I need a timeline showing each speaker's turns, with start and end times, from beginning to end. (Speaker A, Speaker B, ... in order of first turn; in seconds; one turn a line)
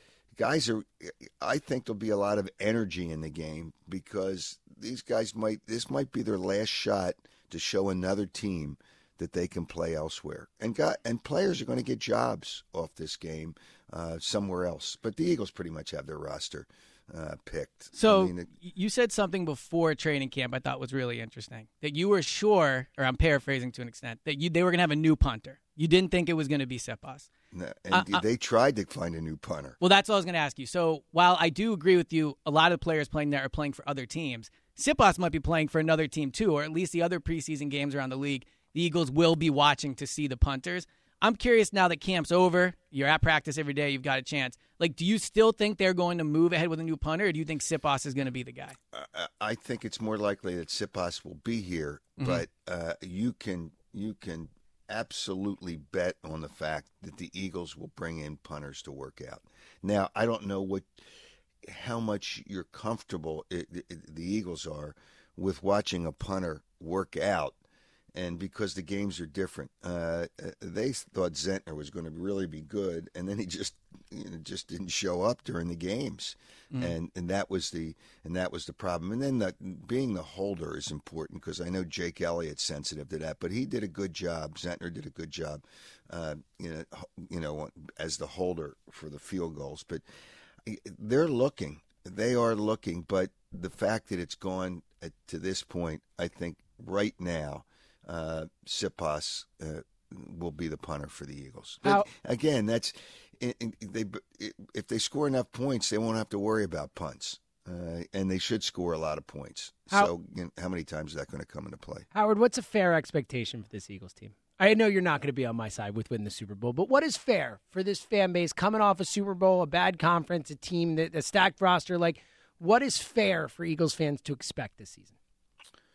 Speaker A: 0.4-18.5
Speaker B: 17.9-27.3
Speaker A: 27.5-29.8
Speaker B: 27.9-28.2
Speaker B: 29.8-48.8
Speaker A: 48.9-61.0
Speaker B: 52.2-52.5
Speaker A: 61.6-67.6
Speaker A: 68.1-90.0
Speaker A: 90.7-112.1
Speaker C: 112.1-125.2